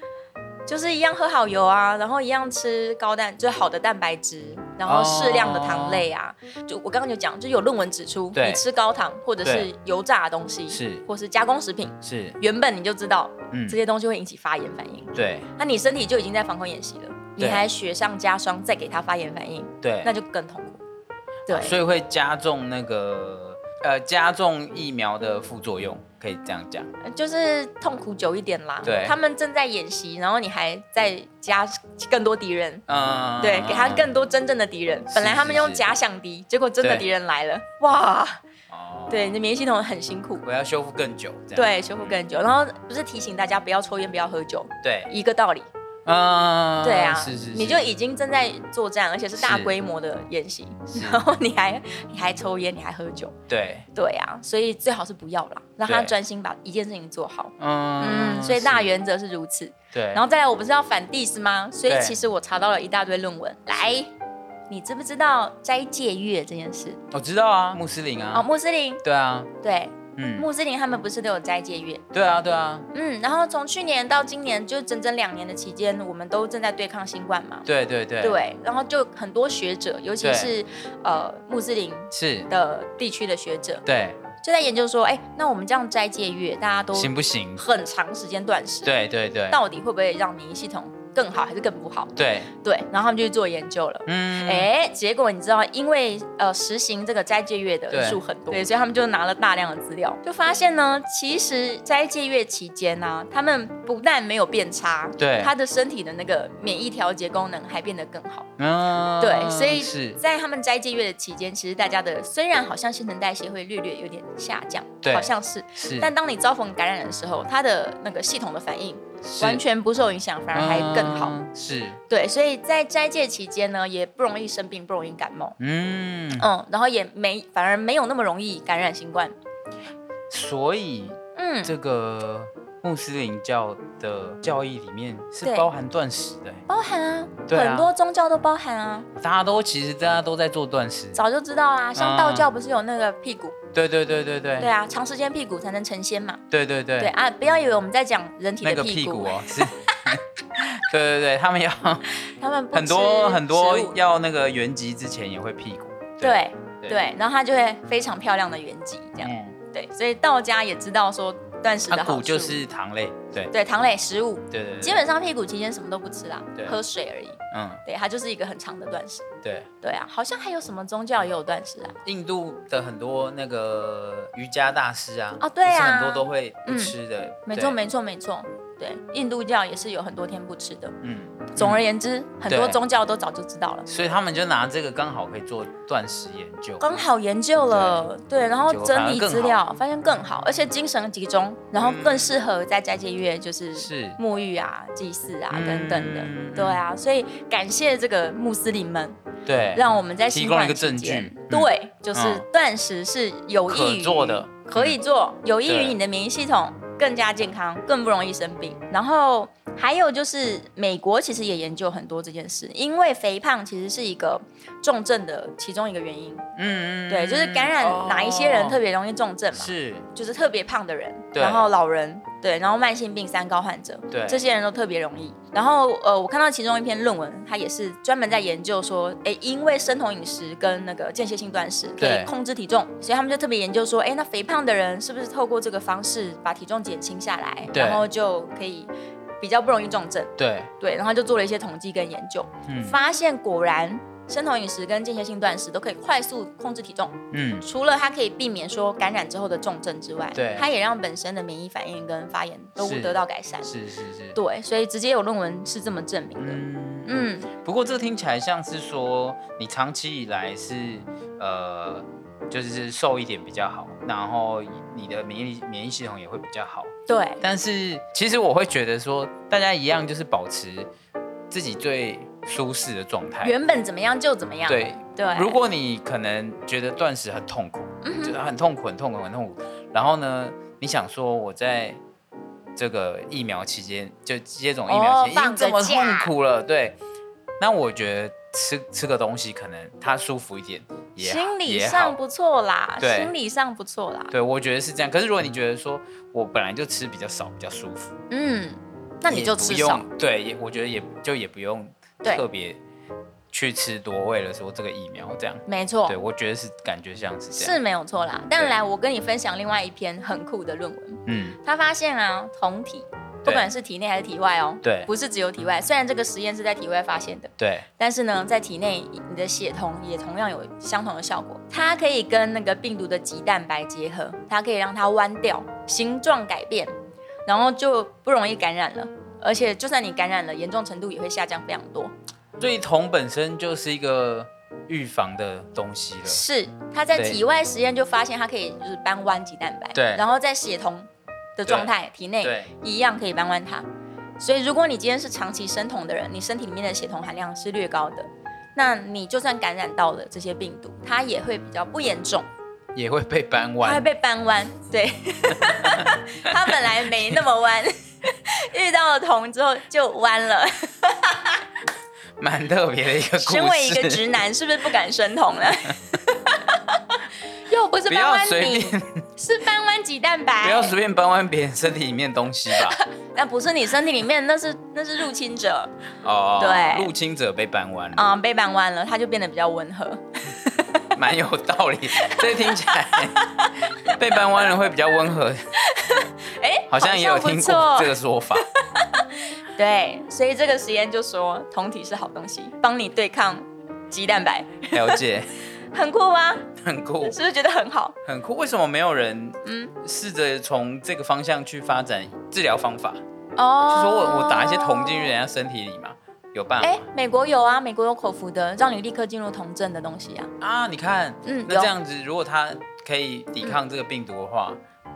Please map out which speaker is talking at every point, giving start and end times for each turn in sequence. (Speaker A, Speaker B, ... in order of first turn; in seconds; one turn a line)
Speaker A: 0.7-20.8
Speaker B: 4.8-6.1
Speaker B: 8.3-8.6
Speaker B: 9.4-9.7
Speaker B: 10.7-11.0
Speaker B: 12.0-12.4
Speaker B: 13.5-13.8
Speaker B: 15.2-15.5
Speaker B: 17.4-17.6
Speaker B: 19.8-20.1
Speaker A: 21.5-21.8
Speaker B: 21.5-26.9
Speaker A: 27.0-32.8
Speaker B: 28.8-29.1
Speaker B: 32.9-34.1
Speaker A: 33.4-38.4
Speaker B: 35.1-35.9
Speaker B: 38.7-39.4
Speaker A: 39.1-40.4
Speaker B: 40.4-42.2
Speaker A: 41.5-45.7
Speaker B: 44.8-45.1
Speaker B: 46.0-47.9
Speaker A: 46.8-53.4
Speaker B: 49.4-49.7
Speaker B: 50.9-51.2
Speaker B: 53.5-53.9
Speaker A: 53.9-64.1
Speaker B: 55.9-56.1
Speaker B: 57.6-58.9
Speaker B: 59.9-60.2
Speaker B: 61.9-62.2
Speaker A: 64.7-67.0
Speaker B: 67.1-68.5
Speaker A: 68.3-69.0
Speaker B: 69.0-69.5
Speaker A: 69.6-72.0
Speaker B: 70.2-70.5
Speaker B: 72.1-72.9
Speaker A: 72.9-77.7
Speaker B: 77.7-78.4
Speaker A: 78.2-83.8
Speaker B: 80.2-80.5
Speaker B: 82.1-82.5
Speaker B: 83.9-84.2
Speaker A: 84.4-88.9
Speaker B: 86.9-87.6
Speaker B: 88.8-89.6
Speaker A: 89.5-108.5
Speaker B: 92.2-92.5
Speaker B: 94.1-94.7
Speaker B: 97.9-98.6
Speaker B: 105.2-105.5
Speaker B: 108.6-110.2
Speaker A: 109.2-121.4
Speaker B: 115.0-116.1
Speaker B: 119.2-119.6
Speaker B: 120.5-122.0
Speaker A: 122.1-125.6
Speaker B: 125.6-126.5
Speaker A: 126.3-129.3
Speaker B: 130.3-136.6
Speaker A: 131.3-131.7
Speaker A: 136.7-139.1
Speaker B: 137.5-137.9
Speaker B: 139.2-141.2
Speaker A: 141.2-143.6
Speaker B: 142.0-142.5
Speaker B: 143.7-144.7
Speaker A: 144.6-146.4
Speaker B: 146.5-147.1
Speaker A: 147.0-150.1
Speaker B: 148.6-152.1
Speaker A: 152.2-154.0
Speaker B: 152.7-157.0
Speaker A: 156.2-162.6
Speaker B: 159.2-159.6
Speaker B: 161.9-163.5
Speaker A: 163.5-169.3
Speaker B: 164.5-165.0
Speaker B: 167.5-167.8
Speaker B: 169.4-169.7
Speaker A: 169.8-172.0
Speaker B: 172.1-177.8
Speaker A: 175.4-176.9
Speaker A: 177.5-180.9
Speaker B: 181.0-181.8
Speaker A: 181.5-183.9
Speaker B: 182.5-182.8
Speaker B: 183.9-186.8
Speaker A: 186.8-199.2
Speaker B: 187.7-188.1
Speaker B: 188.7-189.6
Speaker B: 191.8-192.3
Speaker B: 193.8-194.2
Speaker B: 195.5-196.8
Speaker B: 199.5-202.4
Speaker A: 199.7-216.4
Speaker B: 203.7-205.0
Speaker B: 205.7-206.0
Speaker B: 216.6-218.8
Speaker A: 217.1-253.7
Speaker B: 219.5-220.1
Speaker B: 221.3-221.7
Speaker B: 224.1-224.4
Speaker B: 232.0-232.3
Speaker B: 237.7-238.0
Speaker B: 240.4-240.7
Speaker B: 242.7-243.0
Speaker B: 247.3-247.7
Speaker B: 250.3-250.7
Speaker B: 252.8-254.4
Speaker A: 254.3-257.5
Speaker B: 256.4-270.9
Speaker A: 267.1-267.4
Speaker B: 271.5-273.6
Speaker A: 273.4-275.6
Speaker B: 274.7-282.0
Speaker A: 278.0-278.4
Speaker B: 282.8-287.0
Speaker A: 284.9-286.3
Speaker B: 287.6-292.2
Speaker A: 291.2-294.3
Speaker B: 293.0-293.3
Speaker B: 294.3-298.1
Speaker A: 298.3-300.1
Speaker B: 299.3-302.8
Speaker B: 303.5-307.8
Speaker A: 305.7-306.2
Speaker A: 307.5-326.9
Speaker B: 311.3-311.6
Speaker B: 313.4-313.7
Speaker B: 314.8-315.1
Speaker B: 317.6-317.9
Speaker A: 327.5-332.1
Speaker B: 332.6-336.4
Speaker A: 336.2-343.9
Speaker B: 339.9-340.2
Speaker B: 341.7-341.9
Speaker B: 342.4-342.7
Speaker A: 344.4-352.5
Speaker B: 352.9-354.1
Speaker A: 353.8-361.6
Speaker B: 362.4-364.2
Speaker A: 363.4-370.9
Speaker B: 368.1-369.2
Speaker B: 370.6-373.0
Speaker A: 372.8-375.9
Speaker B: 376.2-378.3
Speaker A: 376.6-377.1
Speaker A: 378.1-380.2
Speaker B: 380.8-383.4
Speaker A: 382.1-384.2
Speaker B: 384.1-385.6
Speaker A: 385.8-395.2
Speaker B: 386.9-388.7
Speaker B: 394.9-395.5
Speaker A: 395.9-396.7
Speaker B: 396.8-397.4
Speaker A: 397.2-398.1
Speaker B: 398.2-403.2
Speaker A: 399.6-399.9
Speaker A: 403.6-405.4
Speaker B: 403.9-407.0
Speaker A: 406.8-410.5
Speaker B: 410.6-414.8
Speaker A: 411.4-411.9